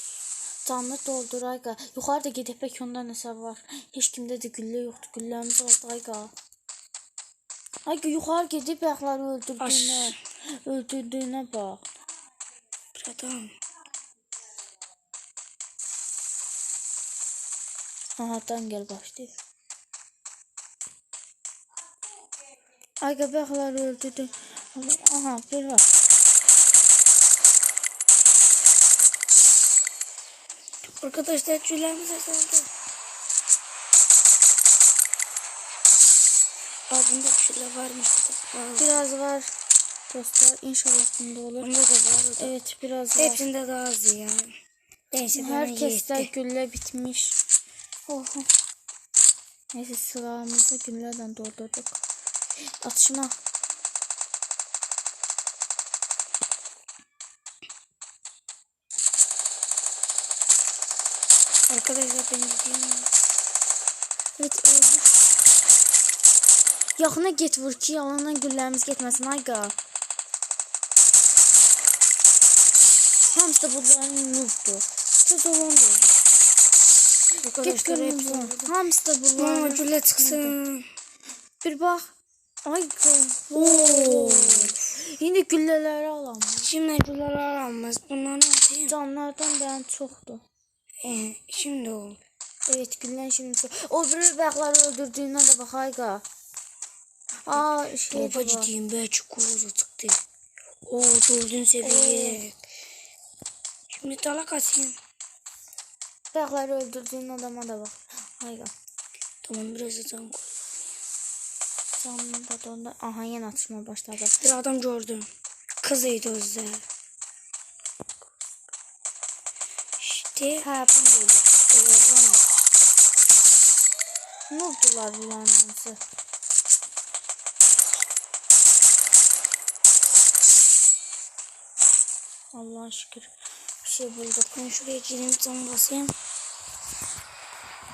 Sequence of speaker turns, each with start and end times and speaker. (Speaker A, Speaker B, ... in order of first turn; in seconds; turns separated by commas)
Speaker A: 0.7-6.3, Speaker A: 7.9-11.9, Speaker B: 9.6-10.2, Speaker B: 12.9-13.5, Speaker A: 18.2-19.3, Speaker A: 23.0-25.9, Speaker B: 30.9-32.7, Speaker B: 36.9-39.0, Speaker A: 38.8-39.5, Speaker A: 40.1-41.7, Speaker B: 41.6-42.6, Speaker A: 42.4-43.5, Speaker B: 43.2-44.5, Speaker B: 45.1-46.3, Speaker A: 45.4-47.4, Speaker A: 48.1-48.5, Speaker A: 49.7-52.0, Speaker A: 52.8-53.4, Speaker B: 61.7-63.1, Speaker A: 64.4-65.1, Speaker A: 67.0-69.7, Speaker A: 73.3-76.1, Speaker B: 77.4-78.7, Speaker A: 77.4-80.6, Speaker B: 79.4-80.9, Speaker A: 81.6-82.1, Speaker A: 82.7-86.7, Speaker B: 83.5-84.8, Speaker B: 86.6-88.9, Speaker A: 88.9-90.4, Speaker B: 91.0-92.2, Speaker A: 92.7-96.2, Speaker A: 97.5-98.7, Speaker B: 97.5-100.2, Speaker B: 100.9-102.6, Speaker A: 101.8-102.4, Speaker B: 103.9-105.0, Speaker A: 106.3-108.7, Speaker B: 109.4-110.5, Speaker A: 112.0-114.4, Speaker B: 114.4-115.3, Speaker B: 115.8-116.8, Speaker B: 120.0-120.7, Speaker A: 120.6-121.5, Speaker B: 121.7-122.5, Speaker A: 124.5-126.0, Speaker A: 132.5-133.3, Speaker A: 133.8-134.5, Speaker B: 134.5-136.2